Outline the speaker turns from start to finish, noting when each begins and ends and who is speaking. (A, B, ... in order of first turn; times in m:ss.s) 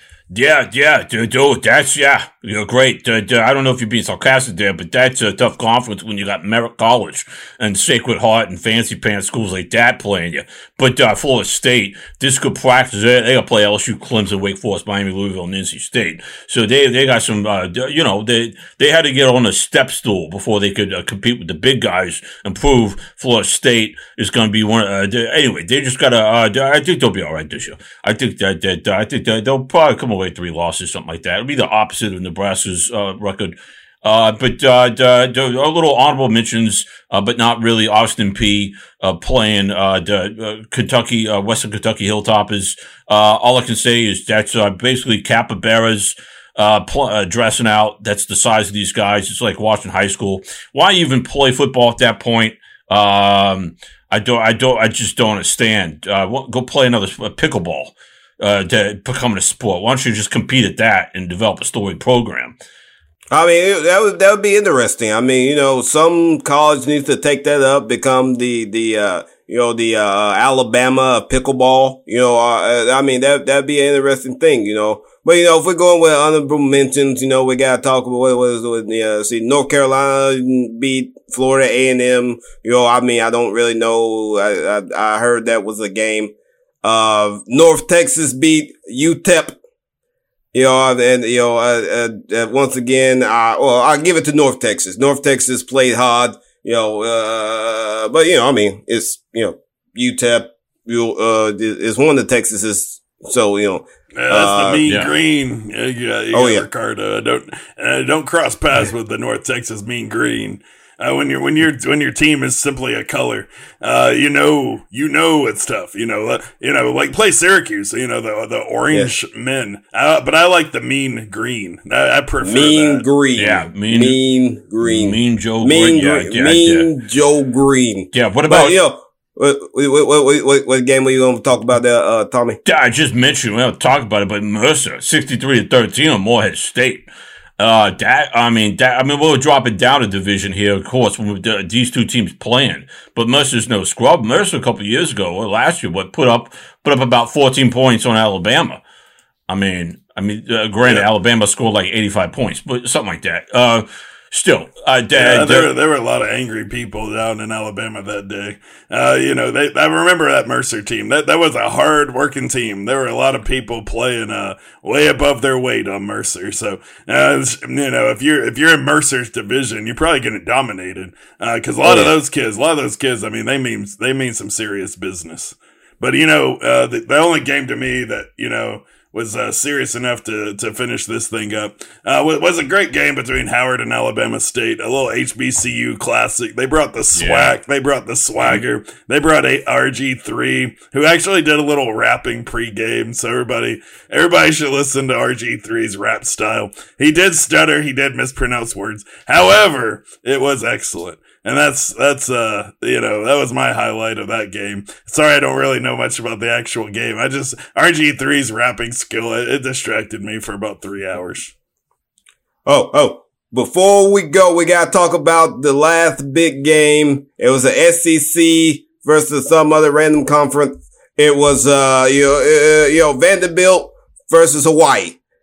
0:00.3-1:02.6 A
1:03.3-1:29.6 B
1:30.5-1:44.8 B
1:44.2-2:03.0 C
1:44.8-1:45.1 A
1:46.3-1:46.6 B
2:02.4-2:12.6 B
2:03.4-2:04.2 A
2:04.8-2:06.9 A
2:08.1-2:08.8 A
2:12.6-2:28.8 A
2:29.5-2:35.7 A
2:35.1-3:31.5 C
2:51.8-2:52.1 B
3:07.2-3:07.6 A
3:32.6-3:45.2 B